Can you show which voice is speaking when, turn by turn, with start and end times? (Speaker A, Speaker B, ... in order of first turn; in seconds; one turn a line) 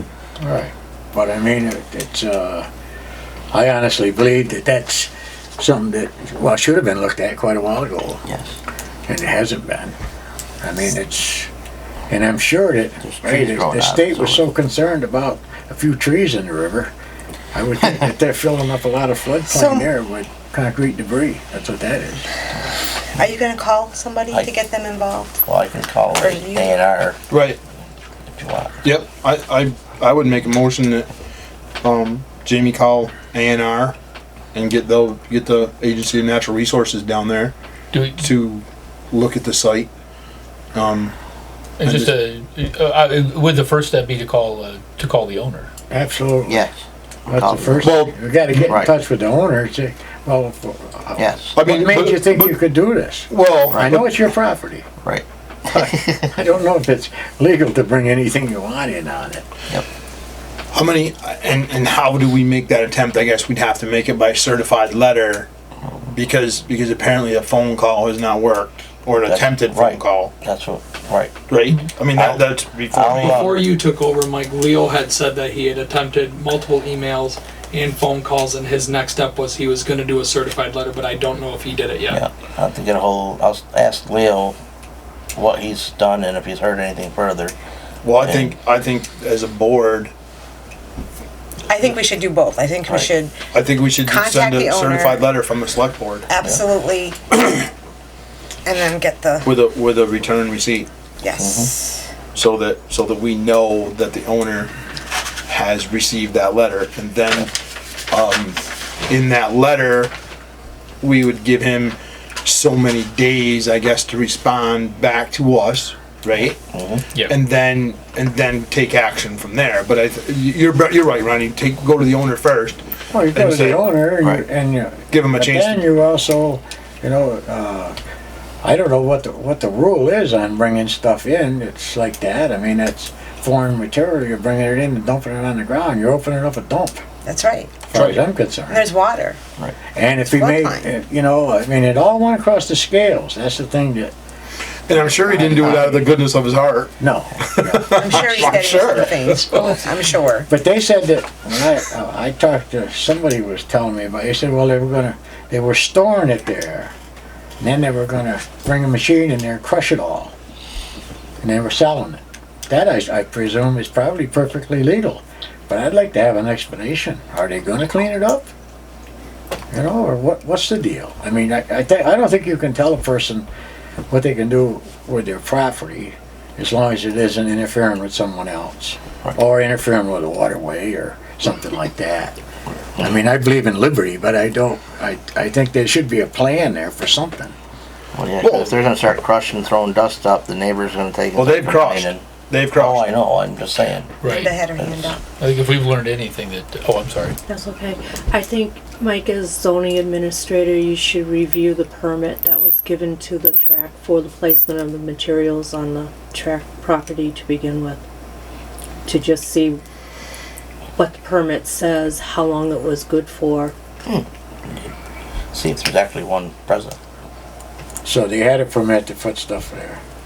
Speaker A: 0.4-2.7
Speaker A: 3.5-8.2
Speaker B: 8.2-8.6
Speaker A: 9.1-9.9
Speaker A: 10.6-11.5
Speaker A: 12.1-16.9
Speaker B: 13.0-14.5
Speaker A: 17.5-22.3
Speaker C: 19.5-19.9
Speaker C: 23.1-25.4
Speaker B: 25.4-27.2
Speaker C: 26.2-26.8
Speaker D: 27.3-27.6
Speaker B: 28.3-28.9
Speaker D: 28.8-31.1
Speaker D: 31.8-34.0
Speaker D: 34.5-37.5
Speaker E: 37.9-38.3
Speaker D: 38.1-39.9
Speaker D: 40.7-41.1
Speaker E: 41.8-45.7
Speaker D: 41.8-42.2
Speaker A: 45.9-46.7
Speaker B: 46.5-47.9
Speaker A: 47.3-54.9
Speaker D: 47.8-48.2
Speaker B: 51.2-51.6
Speaker D: 51.5-52.5
Speaker D: 53.3-54.1
Speaker B: 53.7-54.0
Speaker B: 55.0-56.2
Speaker A: 55.7-59.5
Speaker D: 60.7-65.5
Speaker D: 66.1-70.3
Speaker B: 69.3-71.3
Speaker D: 71.5-73.6
Speaker B: 72.1-73.7
Speaker F: 73.2-82.2
Speaker B: 82.1-84.6
Speaker B: 85.3-87.5
Speaker D: 88.0-90.1
Speaker B: 88.2-88.5
Speaker C: 91.7-93.5
Speaker D: 93.5-96.3
Speaker C: 94.0-95.3
Speaker C: 96.3-97.3
Speaker C: 98.6-99.5
Speaker D: 99.4-100.9
Speaker C: 101.2-102.1
Speaker B: 101.4-101.7
Speaker D: 102.2-104.7
Speaker D: 105.5-107.5
Speaker D: 108.1-110.1
Speaker D: 111.0-116.6
Speaker B: 116.7-117.0
Speaker D: 117.2-123.9
Speaker A: 123.1-128.0
Speaker D: 125.1-125.8
Speaker A: 128.6-137.0
Speaker C: 137.2-137.8
Speaker A: 137.9-138.8
Speaker D: 137.9-138.2
Speaker C: 138.7-139.4
Speaker A: 139.9-144.1
Speaker C: 140.3-140.9
Speaker D: 144.9-146.9
Speaker A: 144.9-146.2
Speaker A: 147.0-149.4
Speaker D: 147.5-149.1
Speaker C: 147.9-150.5
Speaker A: 150.5-156.9
Speaker A: 157.6-160.3
Speaker A: 161.4-168.5
Speaker A: 169.7-173.5
Speaker A: 174.1-182.4
Speaker A: 182.9-187.5
Speaker B: 188.1-195.2
Speaker D: 188.4-188.7
Speaker D: 191.3-193.1
Speaker E: 194.2-194.6
Speaker C: 194.2-195.2
Speaker E: 195.4-197.3
Speaker G: 197.5-208.0
Speaker G: 209.1-209.8
Speaker G: 211.0-213.7
Speaker B: 214.0-214.9
Speaker B: 215.5-217.0
Speaker A: 218.0-220.0